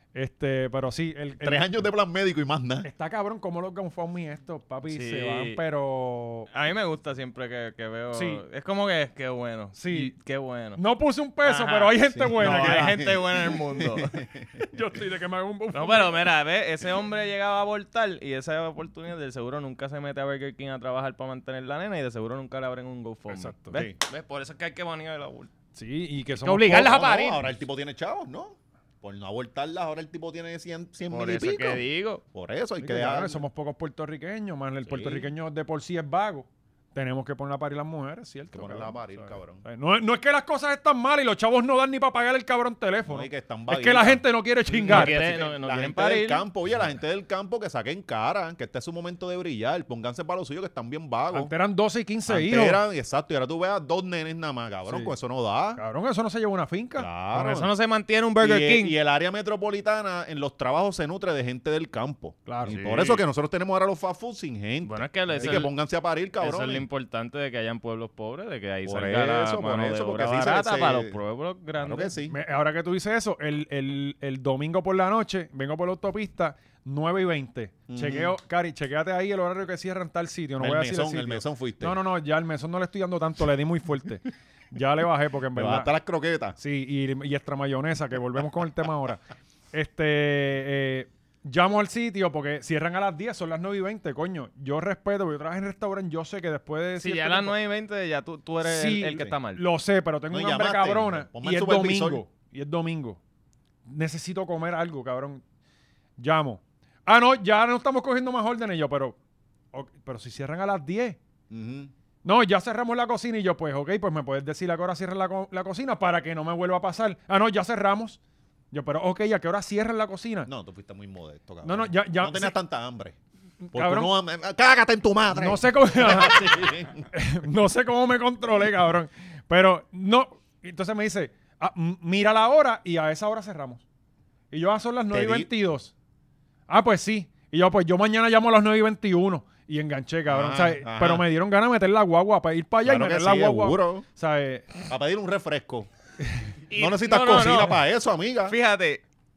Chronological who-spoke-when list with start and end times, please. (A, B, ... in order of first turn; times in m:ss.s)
0:00.1-0:01.7 A
0:01.4-0:02.9 B
0:02.8-0:06.5 A
0:04.9-0:05.6 C
0:06.5-0:10.8 C
0:08.1-0:08.4 A
0:09.7-0:10.1 A
0:10.8-0:13.0 A
0:11.4-0:14.2 C
0:12.1-0:14.7 B
0:14.6-0:16.2 A
0:15.7-0:25.5 C
0:23.3-0:23.8 A
0:25.7-0:27.0 A
0:26.4-0:27.4 C
0:26.6-0:33.4 B
0:31.1-0:32.2 C
0:32.8-0:45.2 A
0:34.8-0:35.3 B
0:38.5-0:39.6 B
0:43.0-0:51.5 B
0:44.9-0:46.4 C
0:51.3-0:52.8 A
0:52.3-0:55.8 B
0:54.8-0:55.1 A
0:55.8-0:57.1 A
0:57.0-0:57.7 B
0:57.3-0:58.9 C
0:58.4-1:06.8 B
1:02.5-1:02.8 A
1:02.6-1:03.2 C
1:04.8-1:05.7 C
1:05.3-1:05.6 A
1:06.4-1:12.1 C
1:08.8-1:11.2 B
1:11.8-1:12.4 B
1:12.3-1:25.9 A
1:17.9-1:18.4 B
1:20.6-1:22.0 B
1:25.5-1:26.6 B
1:26.6-1:37.5 A
1:37.0-1:39.6 C
1:38.6-1:43.2 A
1:40.3-1:42.2 B
1:43.9-1:45.4 A
1:46.2-1:49.2 A
1:49.7-1:51.2 A
1:51.5-1:51.9 B
1:52.2-1:58.2 A
1:58.7-2:00.5 A
2:00.4-2:03.2 B
2:01.6-2:02.6 A
2:03.6-2:04.1 A
2:03.7-2:07.0 B
2:05.3-2:13.8 A
2:14.5-2:15.9 A
2:15.1-2:15.5 B
2:16.7-2:24.7 A
2:20.3-2:21.3 B
2:22.8-2:24.0 B
2:24.9-2:25.9 B
2:26.7-2:27.8 C
2:26.7-2:28.6 B
2:28.5-2:29.0 C